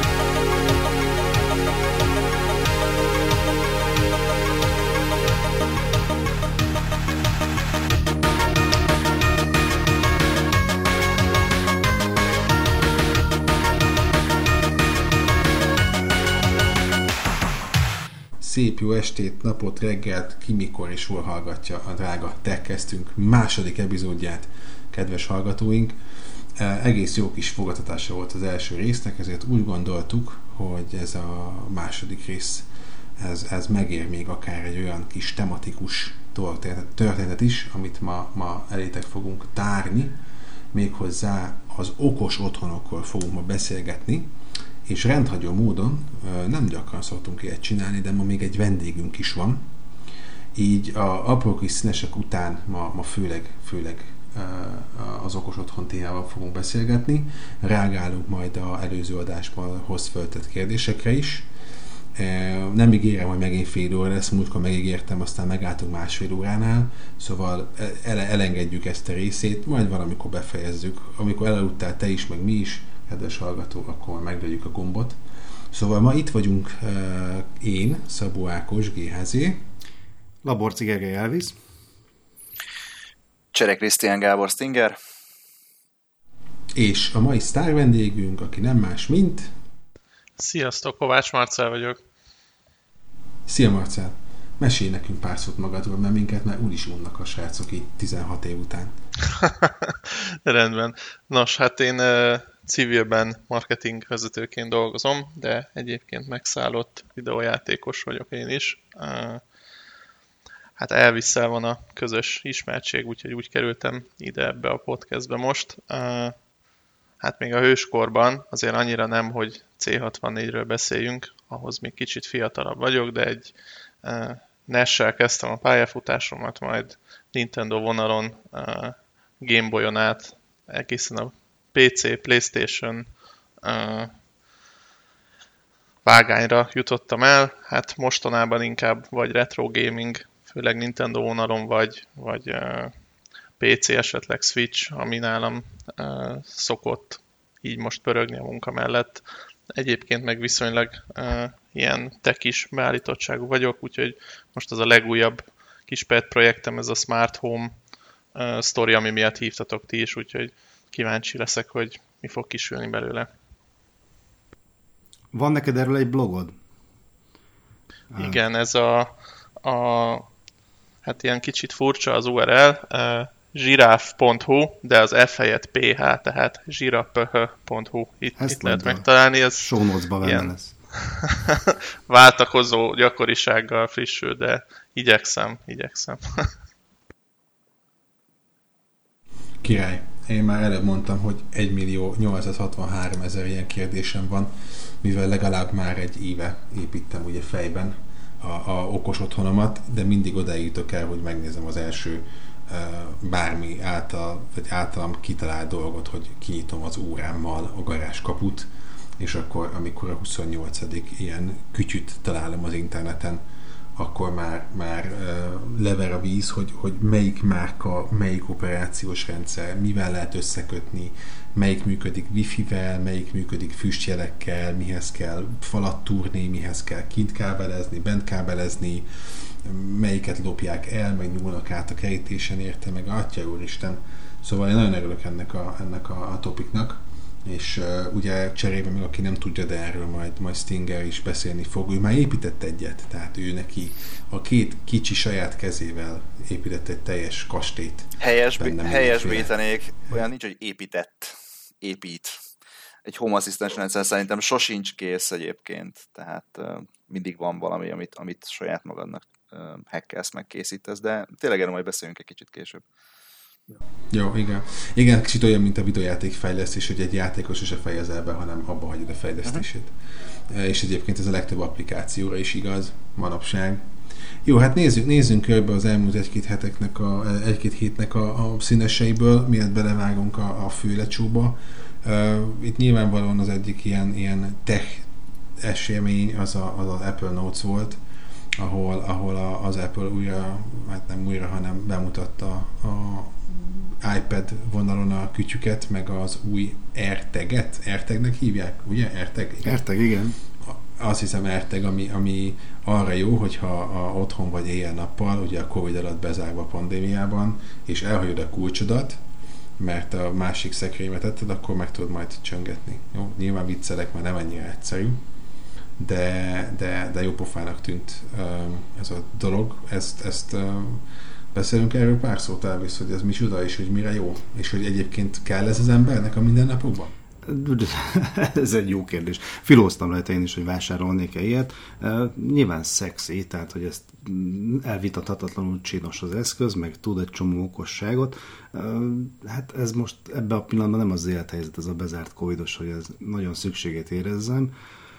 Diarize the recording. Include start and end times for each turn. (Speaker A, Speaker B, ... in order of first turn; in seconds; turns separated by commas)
Speaker A: 18.4-26.0, Speaker A: 26.6-32.7, Speaker A: 33.2-40.2, Speaker A: 40.7-44.3, Speaker A: 44.9-49.6, Speaker A: 50.6-61.5, Speaker A: 62.2-75.2, Speaker A: 75.7-79.6, Speaker B: 80.4-81.6, Speaker C: 83.5-85.0, Speaker A: 86.8-89.5, Speaker D: 90.4-92.0, Speaker A: 93.5-99.0, Speaker D: 99.3-109.4, Speaker D: 110.8-116.4, Speaker D: 117.2-123.5, Speaker D: 124.0-133.1, Speaker D: 133.6-134.1, Speaker D: 136.0-142.9, Speaker D: 143.6-157.7, Speaker D: 158.3-163.3, Speaker B: 165.3-166.6, Speaker B: 168.1-168.4, Speaker D: 168.2-169.1, Speaker D: 169.6-170.3, Speaker D: 171.0-180.5, Speaker B: 178.4-180.8, Speaker D: 181.1-186.5, Speaker A: 189.6-213.4, Speaker A: 214.0-249.5, Speaker C: 248.2-252.3, Speaker C: 253.1-262.8, Speaker A: 264.1-269.9, Speaker A: 270.5-273.9, Speaker A: 274.4-285.1, Speaker A: 285.6-288.0, Speaker A: 288.6-299.8, Speaker B: 299.6-300.4, Speaker A: 300.6-309.2, Speaker A: 309.8-315.2, Speaker A: 316.0-327.1, Speaker B: 327.4-344.7